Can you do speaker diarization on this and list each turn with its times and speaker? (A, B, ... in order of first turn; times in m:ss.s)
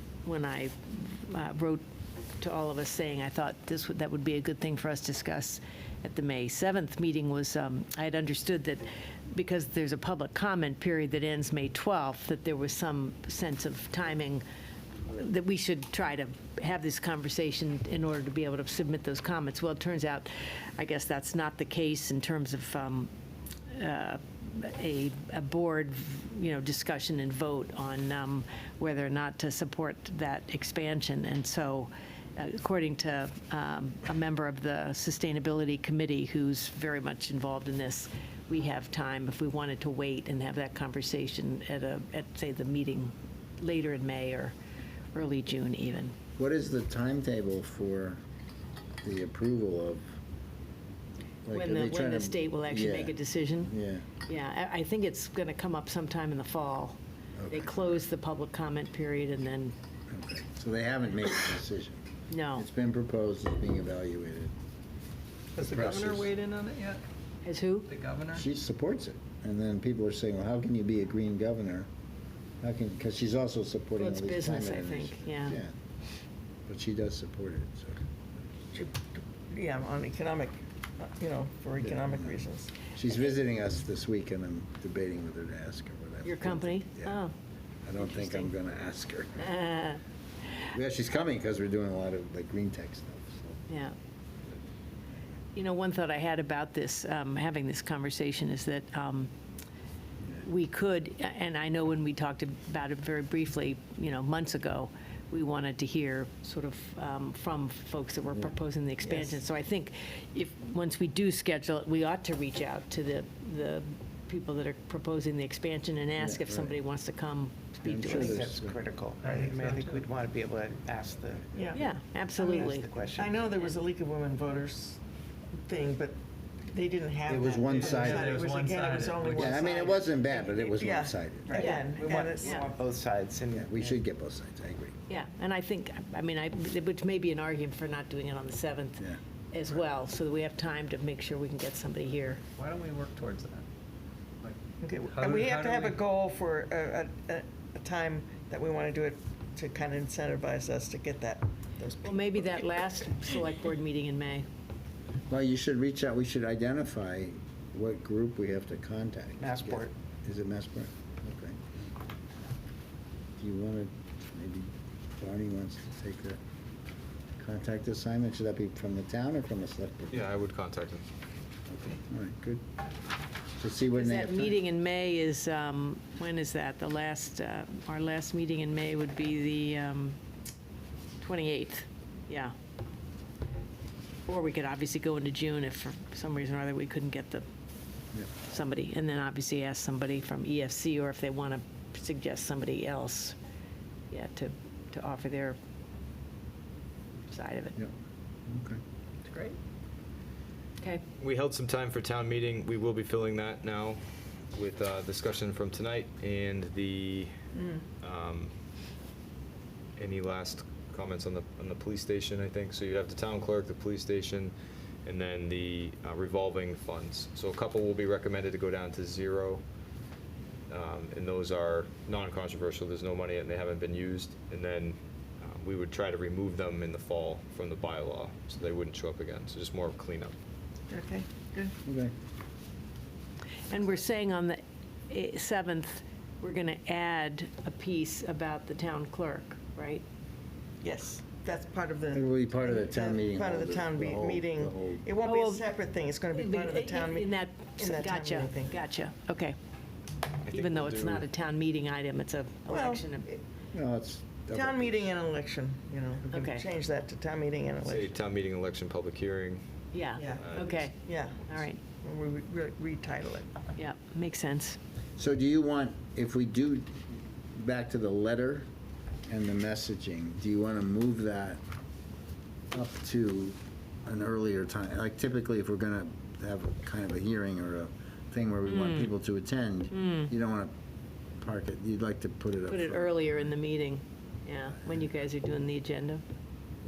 0:00.2-0:01.8 A
0:02.4-0:14.4 A
0:15.0-0:23.1 A
0:23.7-0:44.5 A
0:45.1-0:46.1 A
0:46.4-0:48.2 B
0:49.0-0:50.1 B
0:51.4-0:54.0 B
0:51.5-0:53.7 A
0:54.2-0:57.0 A
0:57.4-0:58.0 B
0:57.5-0:59.7 A
1:00.1-1:04.5 B
1:02.3-1:02.6 A
1:05.6-1:06.3 B
1:05.7-1:06.5 C
1:06.3-1:07.0 D
1:07.4-1:07.9 A
1:07.9-1:08.3 D
1:08.3-1:11.9 B
1:12.6-1:15.7 B
1:14.0-1:15.6 A
1:16.7-1:18.0 B
1:18.7-1:22.8 C
1:21.8-1:22.4 B
1:22.9-1:27.2 B
1:26.2-1:27.3 A
1:27.8-1:29.6 B
1:28.0-1:28.5 A
1:29.4-1:30.0 A
1:30.6-1:33.6 B
1:33.7-1:34.0 A
1:35.5-1:39.3 A
1:40.4-1:58.4 A
1:49.0-1:49.4 C
1:56.2-1:56.8 B
1:57.8-1:58.8 B
1:58.0-2:01.6 E
1:59.3-2:00.0 D
2:01.5-2:01.8 C
2:01.7-2:02.9 A
2:02.4-2:05.0 C
2:02.4-2:03.4 E
2:05.6-2:06.2 C
2:06.7-2:10.0 C
2:07.3-2:08.4 B
2:07.8-2:09.6 D
2:09.2-2:11.7 B
2:10.7-2:12.7 C
2:11.5-2:13.9 E
2:11.5-2:12.6 A
2:13.5-2:14.9 B
2:15.1-2:22.4 A
2:22.6-2:23.6 D
2:24.8-2:32.7 C
2:25.2-2:26.0 D
2:32.0-2:34.5 A
2:35.3-2:41.6 B
2:39.4-2:39.9 E
2:43.4-2:46.4 B
2:47.4-2:50.3 B
2:50.1-2:51.0 F
2:51.7-2:52.6 B
2:53.6-2:54.6 B
2:53.9-3:00.2 A
3:01.2-3:02.5 A
3:04.3-3:07.4 A
3:08.4-3:13.4 A
3:14.1-3:15.6 A
3:17.3-3:17.8 A
3:18.5-3:18.8 B
3:21.2-3:24.0 F
3:24.5-3:27.3 F
3:27.5-3:27.8 C
3:28.0-3:28.5 F
3:30.0-3:34.5 F
3:35.0-3:39.6 F
3:40.7-3:50.3 F
3:50.9-3:51.7 C
3:51.8-3:52.1 B
3:53.7-4:00.0 A
4:00.8-4:08.8 C
4:02.1-4:05.1 B
4:05.2-4:05.6 A
4:06.3-4:09.6 A
4:10.4-4:11.2 F
4:10.5-4:13.3 A
4:12.7-4:13.4 C
4:13.7-4:15.1 B
4:14.5-4:18.2 C
4:16.3-4:16.7 A
4:17.8-4:19.6 F
4:19.9-4:21.8 A
4:20.2-4:21.5 C
4:20.3-4:20.8 F
4:22.0-4:23.6 C
4:23.8-4:24.8 A
4:25.2-4:27.0 B
4:27.5-4:28.6 B
4:29.3-4:31.6 B
4:32.7-4:40.7 B
4:38.7-4:39.1 A
4:39.9-4:40.3 A
4:41.4-4:43.5 B
4:42.6-4:46.2 A